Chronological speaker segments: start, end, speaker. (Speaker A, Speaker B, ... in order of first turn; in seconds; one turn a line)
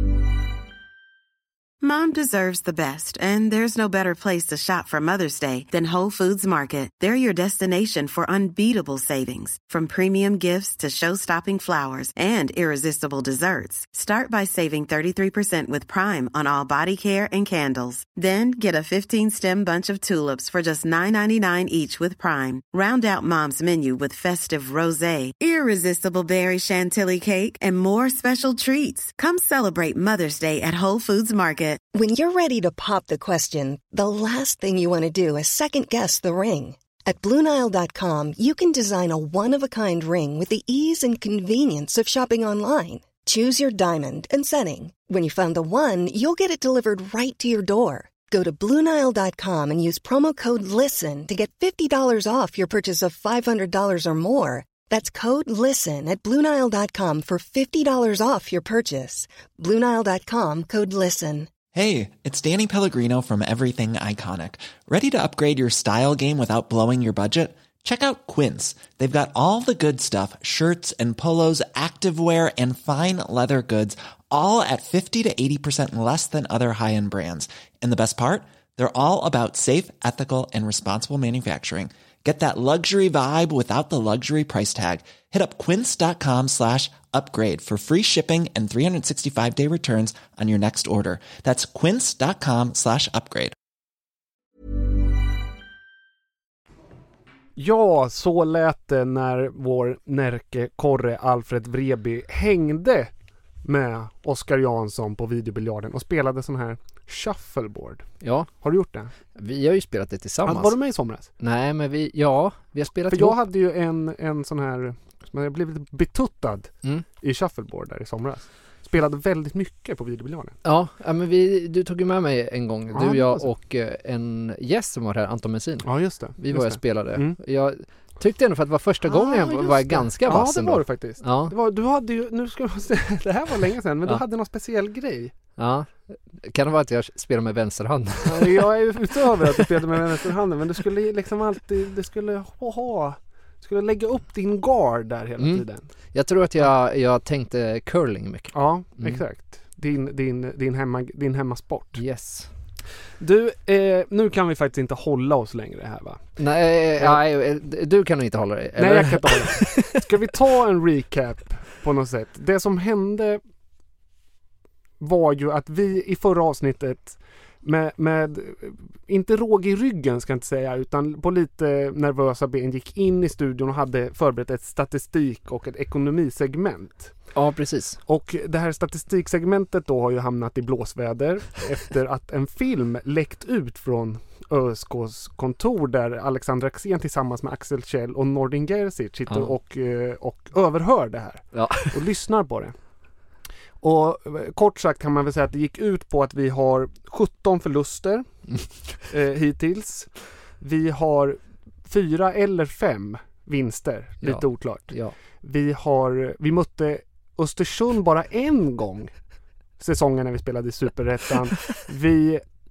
Speaker A: 1.8-31.8
Speaker B: 31.9-61.6
Speaker C: 61.7-93.5
Speaker D: 97.6-103.1
Speaker D: 103.6-109.1
Speaker E: 108.2-108.5
Speaker E: 109.3-110.8
Speaker D: 110.5-111.3
Speaker E: 111.4-113.4
Speaker D: 113.1-120.6
Speaker E: 120.6-131.5
Speaker D: 122.9-123.5
Speaker D: 125.8-127.4
Speaker D: 129.1-135.3
Speaker E: 135.6-140.0
Speaker D: 138.2-145.9
Speaker E: 145.4-149.2
Speaker D: 148.5-152.0
Speaker E: 152.0-152.5
Speaker D: 153.2-156.2
Speaker E: 156.4-160.0
Speaker D: 158.8-163.4
Speaker D: 165.0-177.2
Speaker E: 177.3-178.0
Speaker D: 178.1-192.7
Speaker E: 191.5-191.9
Speaker D: 193.8-198.5
Speaker D: 199.0-209.1
Speaker E: 204.2-205.2
Speaker D: 209.8-212.4